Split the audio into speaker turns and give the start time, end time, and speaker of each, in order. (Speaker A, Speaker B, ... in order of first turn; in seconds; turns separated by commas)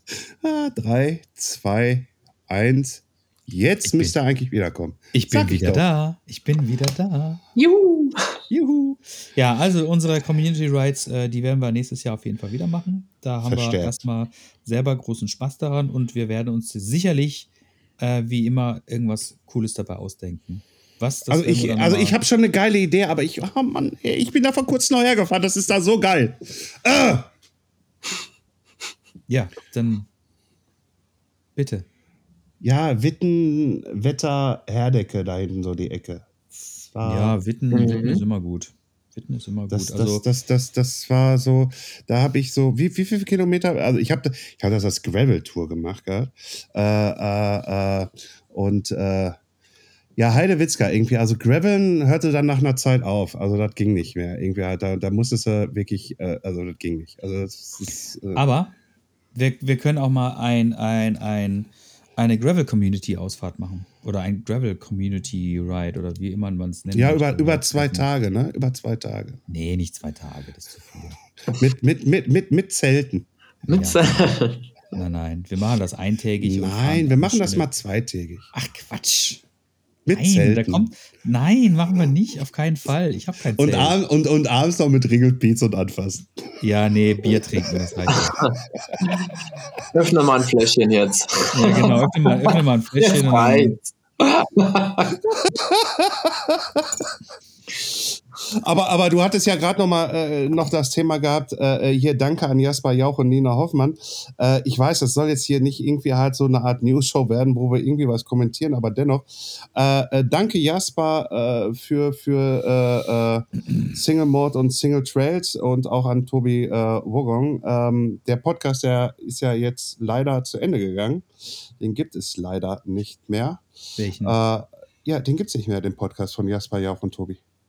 Speaker A: 0.4-5.8, Speaker B: 3.8-4.2, Speaker B: 5.1-7.4, Speaker C: 7.6-8.4, Speaker B: 8.5-17.5, Speaker A: 13.4-14.0, Speaker B: 18.0-22.2, Speaker A: 21.3-27.3, Speaker B: 29.3-30.1, Speaker B: 31.6-31.9, Speaker A: 32.6-37.4, Speaker B: 37.0-40.2, Speaker C: 37.7-38.2, Speaker A: 39.7-49.4, Speaker A: 50.2-58.4, Speaker B: 58.4-58.8, Speaker B: 59.3-68.1, Speaker A: 66.9-69.4, Speaker B: 69.5-71.2, Speaker A: 71.5-73.3, Speaker B: 73.7-74.3, Speaker C: 73.7-74.7, Speaker B: 74.9-77.7, Speaker A: 76.4-78.5, Speaker B: 78.5-79.4, Speaker A: 80.1-80.9, Speaker B: 80.1-84.0, Speaker A: 83.6-86.4, Speaker B: 86.6-88.4, Speaker C: 88.4-89.3, Speaker C: 89.9-95.5, Speaker B: 91.5-93.8, Speaker A: 95.5-96.9, Speaker A: 98.6-121.3, Speaker A: 121.8-123.6, Speaker B: 124.0-124.4, Speaker A: 124.2-127.4